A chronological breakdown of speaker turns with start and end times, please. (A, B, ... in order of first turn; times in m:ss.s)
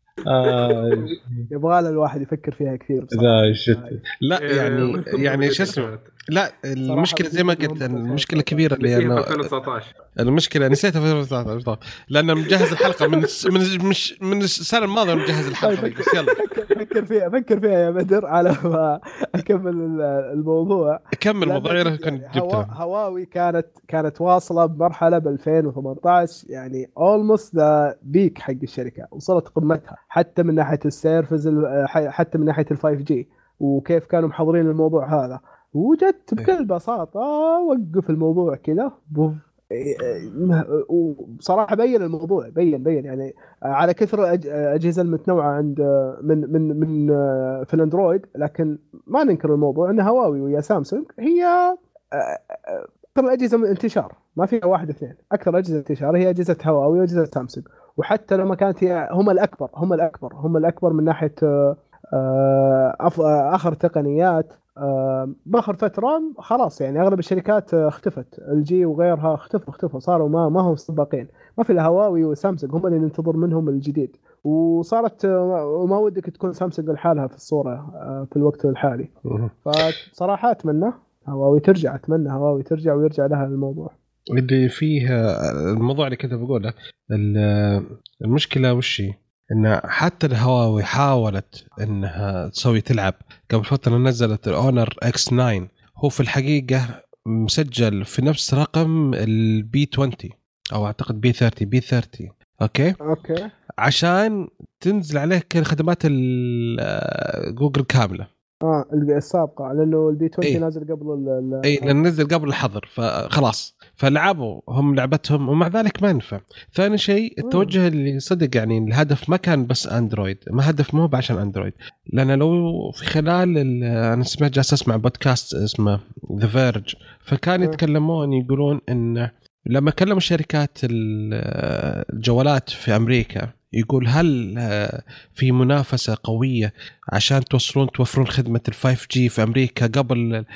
0:00.2-0:01.4 A
0:01.5-0:04.0 B
0:03.1-0:09.4 A
0:04.3-0:06.1 C
0:06.9-0:08.7 B
0:08.8-0:09.9 C
0:10.2-0:16.4 A
0:12.8-0:13.2 B
0:15.6-1:19.1 B
0:21.1-0:22.7 A
1:19.3-1:20.0 A
1:19.6-1:23.9 B
1:24.3-1:36.8 A
1:37.4-1:43.0 A
1:43.1-1:43.5 B
1:43.8-1:48.3 A
1:48.6-1:52.0 B
1:51.6-2:20.4 A
1:57.4-1:57.8 B